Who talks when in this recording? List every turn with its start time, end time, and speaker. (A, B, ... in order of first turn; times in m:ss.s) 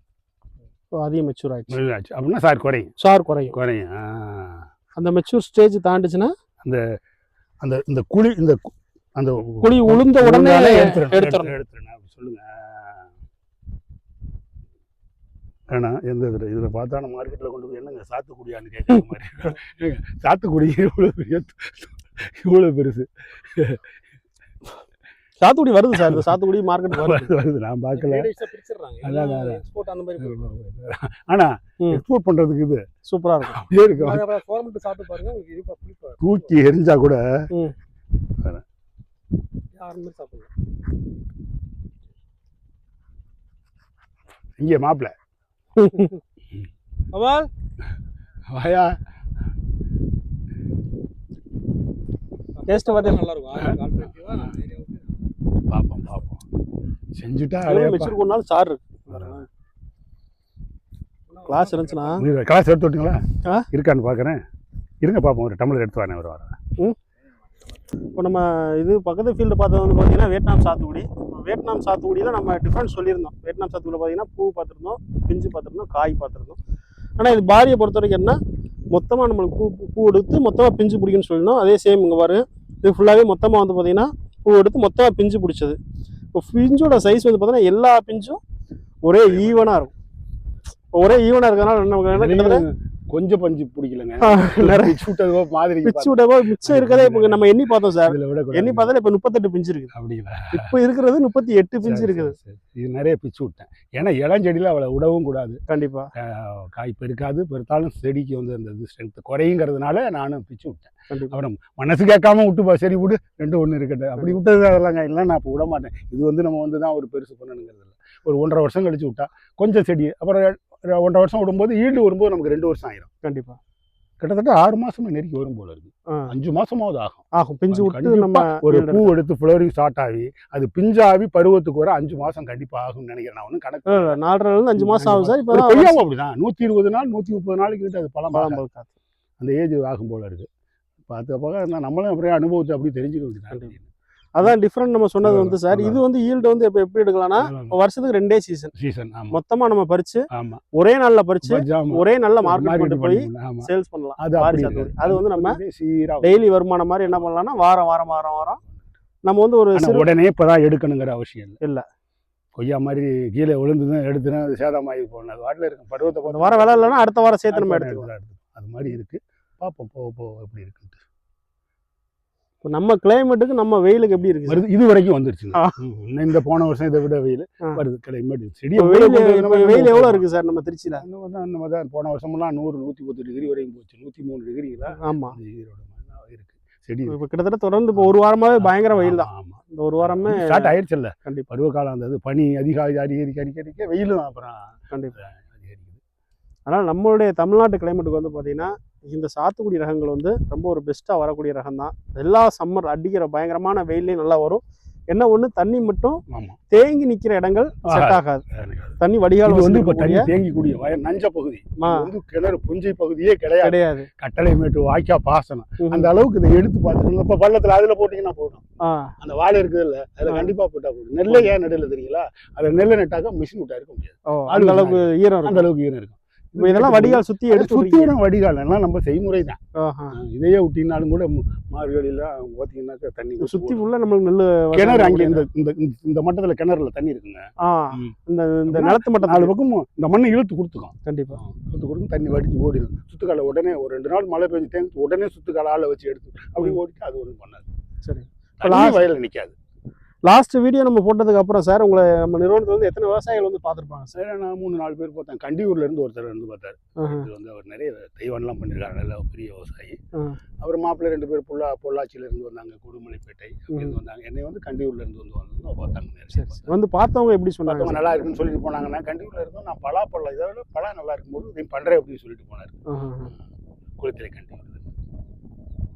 0:01.0-0:01.8 A
0:01.7-0:02.9 B
0:03.0-0:03.6 A
0:03.5-0:04.7 B
0:05.0-0:06.3 A
0:07.6-0:13.1 B
0:09.6-0:11.5 A
0:15.7-0:23.9 B
0:25.4-0:27.3 A
0:26.0-0:26.4 B
0:26.9-0:28.3 B
0:28.0-0:30.4 C
0:29.0-0:29.6 B
0:30.2-0:32.8 B
0:33.1-0:33.6 A
0:33.4-0:34.3 B
0:34.0-0:36.3 C
0:36.2-0:37.2 B
0:39.8-0:40.5 C
0:44.6-0:45.1 B
0:45.8-0:46.2 A
0:47.1-0:47.5 A
0:48.5-0:49.0 B
0:52.6-0:55.2 C
0:52.7-0:53.4 A
0:53.5-0:54.5 B
0:55.7-0:56.5 B
0:57.2-0:58.2 B
0:57.6-0:59.5 A
0:59.1-0:59.4 B
1:01.3-1:02.2 C
1:01.4-1:02.2 A
1:02.2-1:04.4 B
1:05.0-1:06.6 B
1:08.1-1:16.6 A
1:17.2-1:18.4 A
1:18.9-1:25.8 A
1:26.3-1:28.4 A
1:29.0-1:29.9 A
1:30.9-1:32.6 A
1:32.1-1:38.9 B
1:34.2-1:35.1 A
1:35.8-1:39.9 A
1:39.9-1:40.8 B
1:40.5-1:42.4 A
1:41.8-1:45.6 B
1:45.7-1:46.1 A
1:46.2-2:03.1 B
2:03.2-2:03.6 A
2:04.2-2:14.2 B
2:07.3-2:09.1 A
2:13.9-2:16.0 A
2:14.8-2:18.6 B
2:18.3-2:18.9 A
2:19.4-2:20.5 B
2:21.1-2:23.9 B
2:24.4-2:28.7 A
2:25.2-2:26.0 B
2:27.4-2:27.8 B
2:28.8-2:29.4 B
2:29.3-2:35.6 A
2:30.3-2:30.6 B
2:31.4-2:36.5 B
2:36.2-2:38.6 A
2:39.2-2:40.1 A
2:39.7-2:41.6 B
2:42.6-2:51.0 B
2:46.3-2:48.1 A
2:52.6-2:54.6 A
2:54.5-3:00.2 B
2:58.8-3:01.0 A
3:01.0-3:07.2 B
3:05.0-3:05.4 A
3:07.1-3:10.7 A
3:08.0-3:16.0 B
3:16.7-3:28.4 A
3:26.3-3:26.6 B
3:27.8-3:38.6 B
3:29.0-3:30.3 A
3:31.8-3:32.1 A
3:33.6-3:34.1 A
3:35.8-3:36.1 A
3:38.8-3:39.1 A
3:39.2-3:49.6 B
3:40.3-3:40.5 A
3:41.3-3:41.6 A
3:44.3-3:45.7 A
3:46.6-3:48.1 A
3:49.8-3:50.2 A
3:50.2-3:53.8 B
3:53.4-3:55.4 A
3:54.7-3:58.1 B
3:57.6-3:59.5 A
3:58.7-4:07.7 B
4:01.0-4:01.4 A
4:08.0-4:09.1 A
4:08.6-4:09.5 B
4:10.2-4:14.2 A
4:14.2-4:20.0 B
4:17.0-4:17.3 A
4:20.6-4:26.7 B
4:26.3-4:28.0 A
4:27.7-4:32.8 B
4:32.9-4:33.3 A
4:34.0-4:34.9 B